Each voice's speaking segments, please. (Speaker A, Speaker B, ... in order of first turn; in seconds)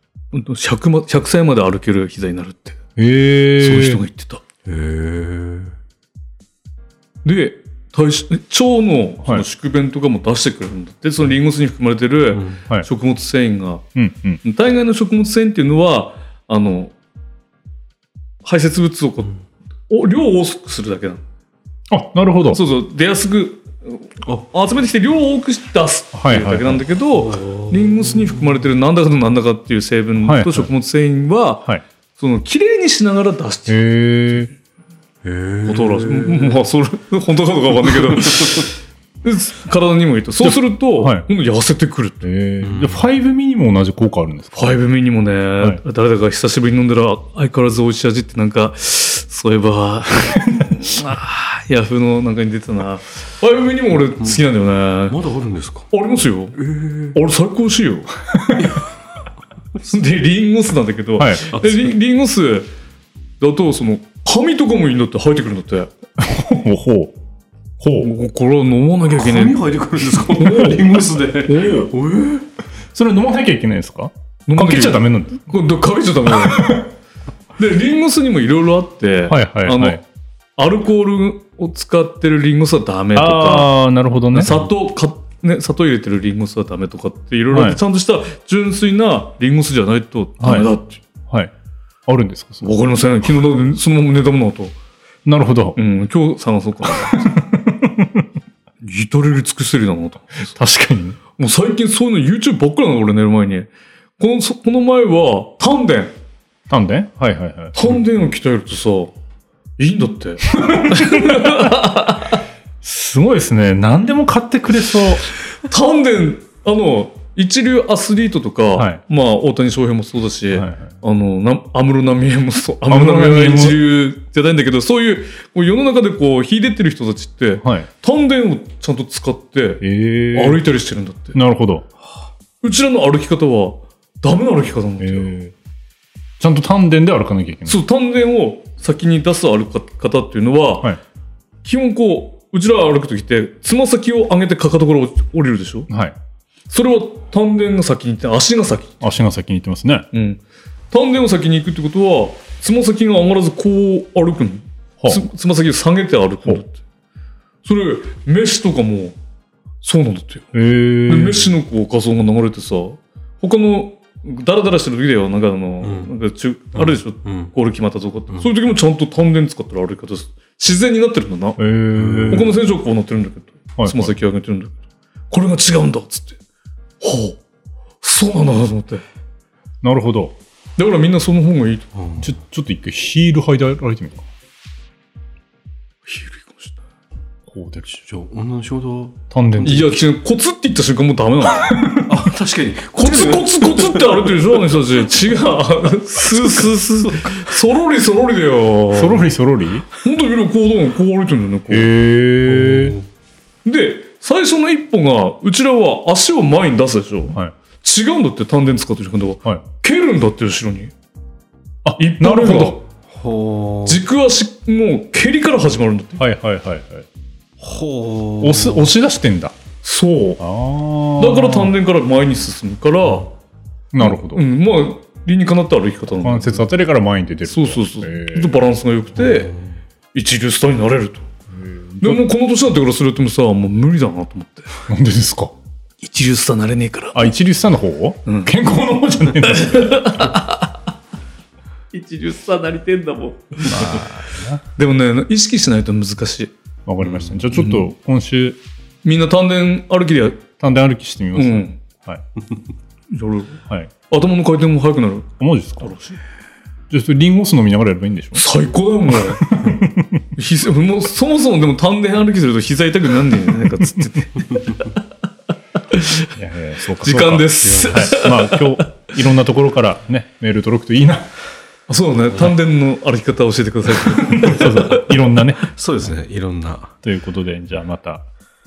Speaker A: 0.3-2.8, 3.5-4.4, 7.2-13.8, 14.4-16.9, 18.4-19.3, 19.9-21.2, 22.5-34.5, 35.6-42.2, 44.5-55.2, 55.9-56.6, 57.1-58.1, 59.8-62.7, 63.4-65.9, 68.0-69.6, 70.3-71.9, 74.5-76.8, 77.6-80.0, 80.6-83.8, 84.3-91.0, 92.6-94.7, 95.8-97.3, 98.8-100.6, 101.3-106.1, 107.7-109.1, 109.8-112.3, 115.5-131.4, 132.6-135.3, 137.7-140.9, 141.6-145.9, 146.7-149.0, 150.1-156.8, 157.6-159.2, 159.8-160.5, 161.1-171.6, 172.3-174.8, 175.3-176.4, 177.0-177.4, 178.0-179.0, 180.8-181.8, 186.1-186.8, 189.6-192.0, 192.9-199.3, 200.0-201.9, 203.6-210.9, 212.0-212.8, 213.8-216.2, 219.8-220.4, 221.2-223.3, 224.0-226.7, 227.4-229.5, 230.1-231.3, 232.0-234.7, 236.0-237.3, 238.2-238.5, 239.4-240.7, 241.9-244.1, 244.8-246.5, 247.5-247.8, 249.0-250.4, 251.3-251.8, 253.1-255.3, 255.8-256.2, 258.3-259.6, 260.4-265.0, 265.9-266.3, 267.0-268.6, 271.9-275.0
Speaker B: 3.0-4.0, 13.9-14.4, 21.9-22.6, 26.1-26.8, 30.2-30.7, 33.7-34.5, 40.4-41.2, 42.2-44.8, 50.3-50.9, 58.3-58.6, 61.2-61.5, 66.2-67.2, 67.8-68.1, 72.9-75.4, 76.4-76.8, 79.3-80.0, 83.1-84.5, 87.5-87.8, 90.4-90.7, 92.1-92.8, 95.2-95.8, 96.8-98.2, 100.5-101.2, 106.7-107.8, 110.5-111.7, 112.8-115.3, 118.8-119.0, 120.5-120.9, 122.9-123.8, 127.6-127.9, 129.8-130.6, 131.3-131.9, 135.0-135.5, 136.4-137.8, 145.9-146.2, 149.0-150.1, 155.0-155.2, 160.5-161.5, 171.6-172.5, 173.8-174.2, 179.8-180.3, 182.2-184.2, 187.5-187.9, 189.3-190.0, 191.6-192.1, 198.9-199.8, 201.7-202.9, 211.8-212.8, 216.2-217.1, 218.4-219.5, 220.4-221.7, 223.9-224.4, 226.1-228.6, 231.5-232.2, 234.8-235.5, 237.1-240.2, 243.6-244.6, 246.8-248.6, 250.6-252.2, 255.4-255.9, 256.9-258.4, 259.3-260.2, 266.3-271.3, 274.3-275.7, 277.0-278.2
Speaker C: 4.6-5.8, 12.3-12.6, 27.1-28.6, 35.2-36.6, 38.3-38.6, 42.6-43.0, 55.1-55.9, 56.5-57.2, 58.6-58.9, 61.5-61.9, 69.1-72.5, 165.8-166.1, 166.7-167.5, 171.9-172.5, 181.9-182.3, 187.8-189.8, 192.0-194.8, 196.3-197.5, 202.4-203.1, 213.1-214.0, 217.6-218.9, 229.2-229.8, 247.0-247.4, 267.6-268.3, 275.6-276.9